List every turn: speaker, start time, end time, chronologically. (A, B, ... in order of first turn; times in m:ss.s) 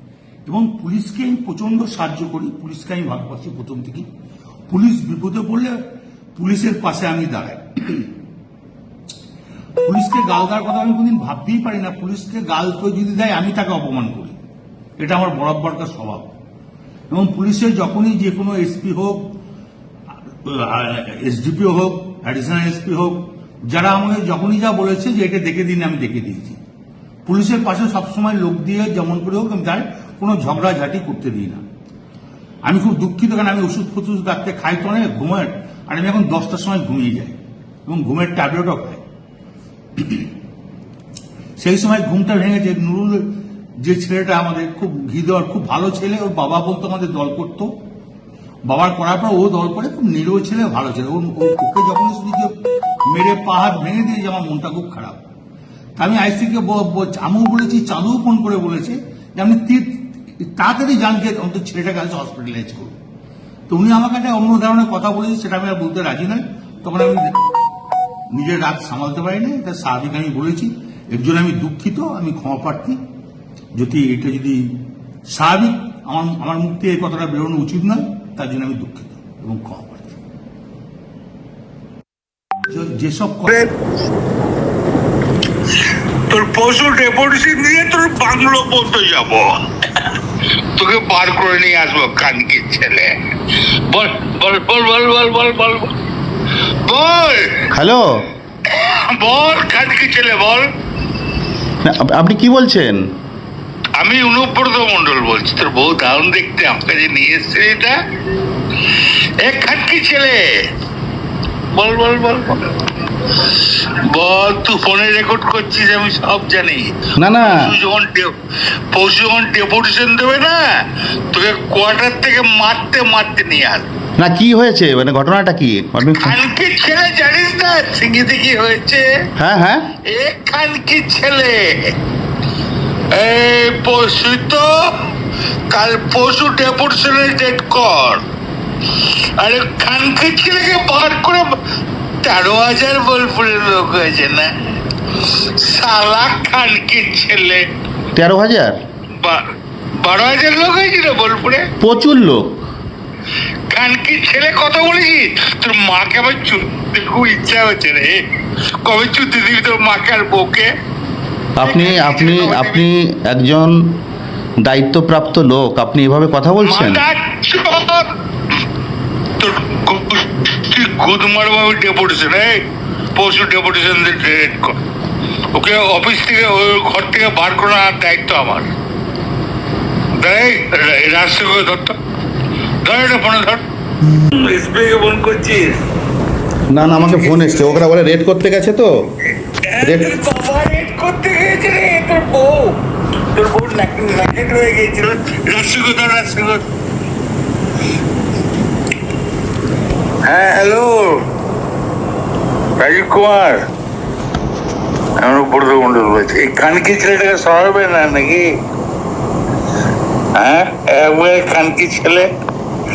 0:00.5-0:04.1 A
0:04.7-0:05.8 A
0:06.4-0:08.1 A
0:09.8-0:14.3 A
0:15.0-0:16.3 A
0:17.1-0:19.2 A
0:20.3-0:26.6 A
0:27.2-0:31.6 A
0:32.6-0:39.0 A
0:40.0-0:40.3 A
0:41.6-0:43.3 A
0:43.8-0:47.7 A
0:48.7-0:52.5 A
0:53.1-0:55.2 A
0:56.0-1:02.9 A
1:03.7-1:07.4 A
1:08.3-1:13.0 A
1:13.8-1:14.7 A
1:15.3-1:20.2 A
1:22.7-1:23.6 A
1:26.3-1:30.1 B
1:30.8-1:33.1 B
1:33.9-1:35.9 B
1:36.9-1:37.7 B
1:37.7-1:38.2 C
1:38.7-1:40.7 B
1:41.8-1:43.0 C
1:44.0-1:47.9 B
1:48.9-1:50.5 B
1:51.7-1:58.3 B
1:57.2-1:57.6 C
1:58.9-2:00.6 B
2:01.3-2:03.9 B
2:04.2-2:06.4 C
2:06.1-2:09.1 B
2:09.4-2:09.9 C
2:10.1-2:11.9 B
2:13.1-2:15.1 B
2:15.7-2:18.2 B
2:18.9-2:21.6 B
2:22.2-2:24.5 B
2:25.2-2:27.6 B
2:28.2-2:28.8 C
2:30.0-2:31.7 B
2:31.8-2:32.6 C
2:33.7-2:38.2 B
2:38.8-2:40.7 B
2:41.6-2:44.0 C
2:41.6-2:42.9 B
2:44.6-2:47.0 C
2:46.6-2:48.1 B
2:49.4-2:52.6 B
2:53.2-2:54.8 B
2:55.5-2:58.7 B
3:00.2-3:02.0 B
3:02.8-3:03.6 B
3:04.3-3:05.8 B
3:06.7-3:08.9 C
3:07.1-3:07.8 B
3:09.5-3:12.8 B
3:09.8-3:10.1 C
3:13.3-3:16.6 B
3:20.2-3:21.2 B
3:22.8-3:23.6 B
3:25.2-3:28.5 B
3:30.4-3:32.3 B